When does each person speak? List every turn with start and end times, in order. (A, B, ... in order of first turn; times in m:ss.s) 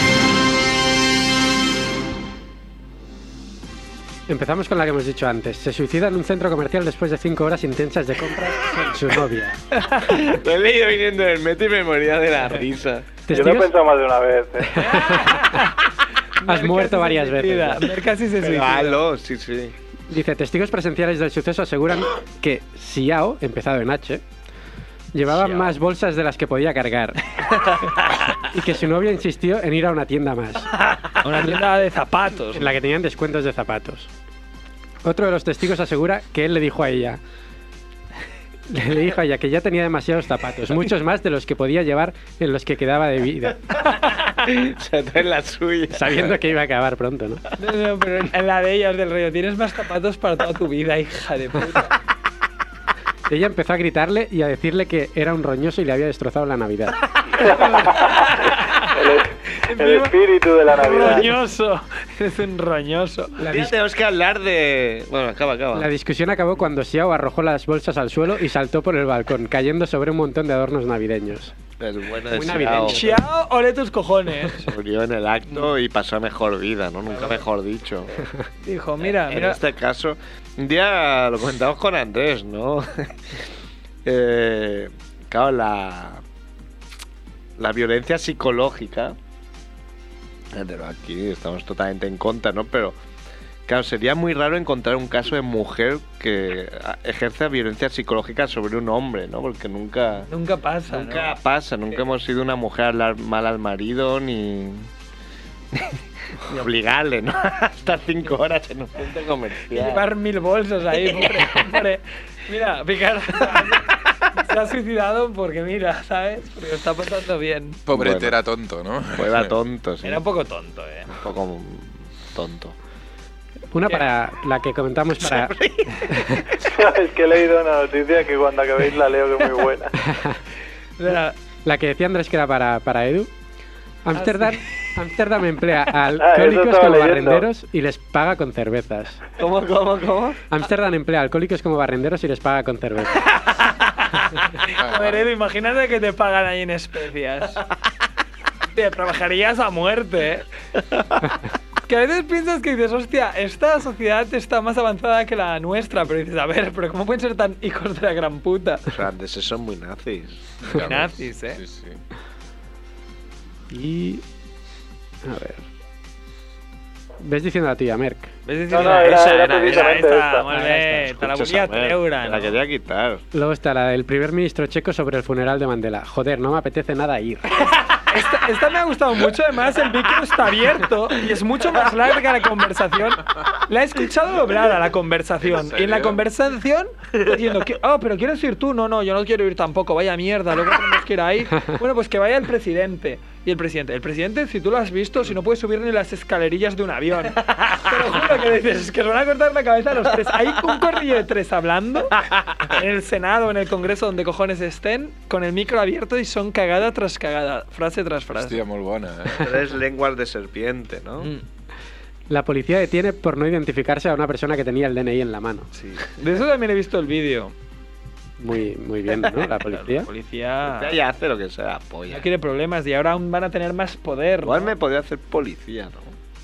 0:04.3-0:09.6 A
0:09.8-0:10.2 B
0:10.1-0:13.2 C
0:13.3-0:13.7 A
0:13.3-0:14.9 D
0:14.7-0:15.7 A
0:14.7-0:19.0 B
0:16.5-0:17.9 A
0:18.4-0:19.8 C
0:20.1-0:24.2 A
0:25.1-0:27.6 A
0:25.3-0:25.8 B
0:28.4-0:30.8 A
0:31.2-0:32.7 B
0:32.5-0:34.1 A
0:35.0-0:37.2 A
0:38.7-0:43.8 A
0:44.0-0:46.4 C
0:45.9-0:47.4 A
0:47.6-0:52.0 B
0:53.3-0:57.1 A
0:57.4-1:01.4 D
0:57.4-1:03.4 B
1:03.4-1:03.7 A
1:03.4-1:05.9 C
1:05.7-1:11.6 A
1:11.8-1:13.2 C
1:12.3-1:13.2 A
1:12.8-1:14.7 B
1:14.6-1:18.2 C
1:17.1-1:17.4 B
1:18.6-1:19.6 B
1:19.0-1:23.4 C
1:24.0-1:26.2 C
1:27.6-1:29.2 C
1:30.5-1:33.0 C
1:33.7-1:40.3 C
1:40.2-1:41.4 B
1:40.9-1:44.9 C
1:45.7-1:50.1 C
1:49.7-1:57.8 B
1:51.0-1:51.6 C
1:57.9-1:59.5 E
1:57.9-1:58.4 C
1:59.2-2:00.2 C
2:00.0-2:01.2 B
2:01.1-2:02.8 C
2:03.7-2:05.5 A
2:05.2-2:06.5 C
2:06.6-2:09.9 D
2:10.0-2:10.4 A
2:11.0-2:11.4 B
2:11.6-2:13.3 A
2:14.0-2:19.2 A
2:14.2-2:14.9 B
2:16.2-2:17.5 D
2:19.4-2:20.4 C
2:20.5-2:23.2 A
2:23.5-2:27.6 B
2:24.8-2:25.2 E
2:28.7-2:30.5 B
2:31.8-2:38.9 B
2:38.9-2:40.6 C
2:40.6-2:42.0 E
2:40.7-2:41.6 B
2:43.7-2:44.2 A
2:45.2-2:45.6 A
2:47.2-2:48.3 A
2:48.5-2:52.6 B
2:48.7-2:50.5 D
2:48.8-2:50.1 C
2:50.5-2:51.2 A
2:51.1-2:53.2 C
2:53.3-2:57.5 A
2:57.6-3:28.6 B
3:05.4-3:06.2 E
3:17.6-3:18.0 C
3:22.2-3:22.7 C
3:28.4-3:29.5 E
3:29.4-3:31.3 C
3:31.2-3:31.4 B
3:32.3-3:35.7 A
3:35.7-3:37.5 B
3:38.4-3:40.1 A
3:39.5-3:41.0 B
3:40.6-3:42.3 C
3:42.1-3:44.7 B
3:44.4-3:46.2 C